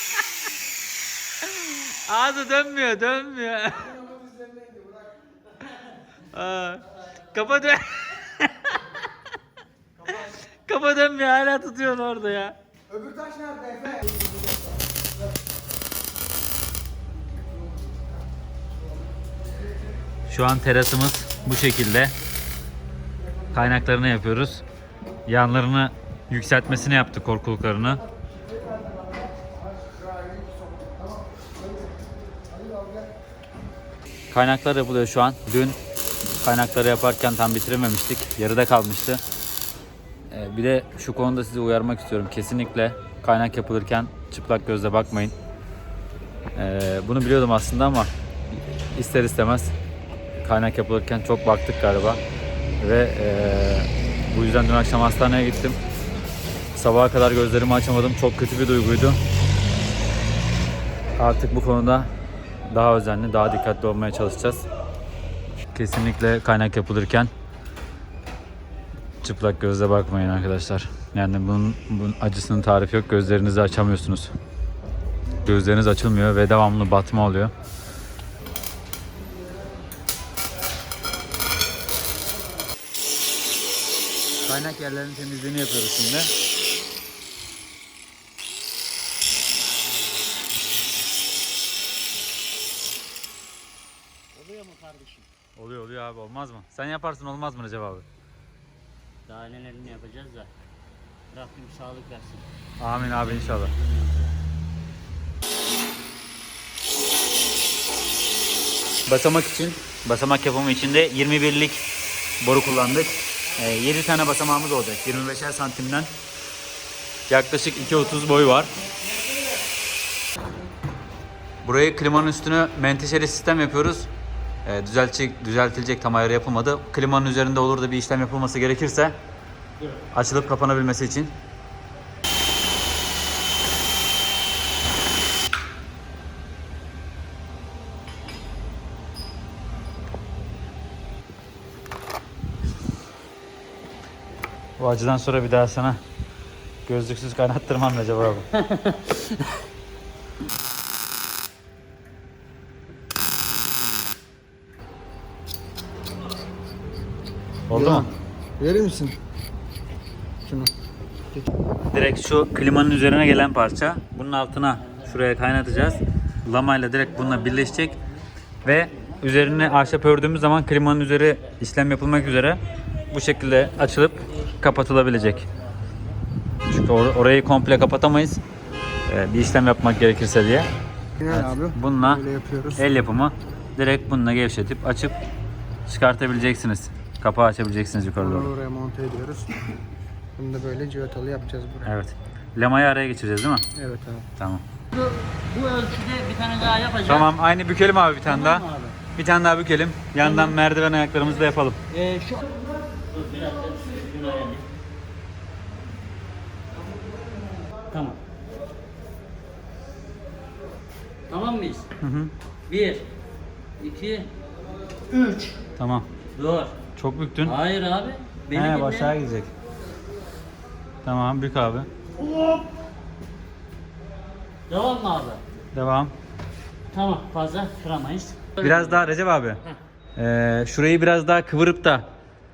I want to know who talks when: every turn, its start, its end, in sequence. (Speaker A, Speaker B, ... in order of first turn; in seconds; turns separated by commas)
Speaker A: 1.4-4.0, Speaker B: 3.9-5.1, Speaker A: 6.3-9.0, Speaker A: 10.1-12.6, Speaker B: 12.9-14.5, Speaker A: 20.3-22.1, Speaker A: 23.5-24.6, Speaker A: 25.3-28.0, Speaker A: 34.3-35.8, Speaker A: 36.4-39.2, Speaker A: 40.3-45.3, Speaker A: 46.5-48.1, Speaker A: 48.9-49.7, Speaker A: 50.4-52.2, Speaker A: 52.8-55.8, Speaker A: 56.8-59.2, Speaker A: 61.2-62.1, Speaker A: 62.7-64.6, Speaker A: 65.7-67.3, Speaker A: 69.2-74.3, Speaker A: 75.4-77.5, Speaker A: 84.5-86.3, Speaker C: 94.3-95.3, Speaker A: 95.6-98.1, Speaker C: 99.3-100.5, Speaker C: 101.3-102.5, Speaker A: 102.8-103.7, Speaker C: 103.1-104.3, Speaker A: 109.1-111.8, Speaker A: 112.4-116.1, Speaker A: 117.3-118.7, Speaker C: 118.8-119.6, Speaker A: 121.6-124.1, Speaker A: 124.7-129.2, Speaker A: 130.1-131.3, Speaker A: 144.8-146.0, Speaker A: 146.8-148.5, Speaker C: 148.6-149.4, Speaker A: 157.7-158.1, Speaker B: 157.7-159.2, Speaker B: 160.4-160.7, Speaker A: 161.9-168.0, Speaker C: 164.8-165.3, Speaker C: 167.5-168.0, Speaker A: 168.7-175.4, Speaker C: 168.7-169.9, Speaker C: 173.4-176.2, Speaker A: 176.7-178.4, Speaker A: 179.1-180.7, Speaker B: 181.2-182.8, Speaker A: 181.2-185.2, Speaker A: 185.9-188.5, Speaker B: 188.2-189.5, Speaker B: 190.4-191.9, Speaker A: 191.8-193.7, Speaker B: 193.8-194.3, Speaker A: 194.4-194.6, Speaker C: 194.9-197.3, Speaker A: 197.1-201.8, Speaker C: 198.2-199.0, Speaker C: 200.2-200.6, Speaker C: 201.9-204.7, Speaker C: 207.9-208.2, Speaker C: 211.3-211.9, Speaker A: 212.0-212.3, Speaker C: 212.7-213.1, Speaker C: 213.8-214.3, Speaker C: 215.1-215.6, Speaker A: 215.8-216.1, Speaker C: 216.3-216.8, Speaker A: 217.0-217.6, Speaker C: 217.4-219.2, Speaker A: 218.5-219.5, Speaker A: 221.0-221.9, Speaker C: 222.2-222.6, Speaker C: 224.7-225.4, Speaker A: 225.8-226.1, Speaker C: 226.9-229.1, Speaker A: 228.6-229.6, Speaker A: 230.2-232.1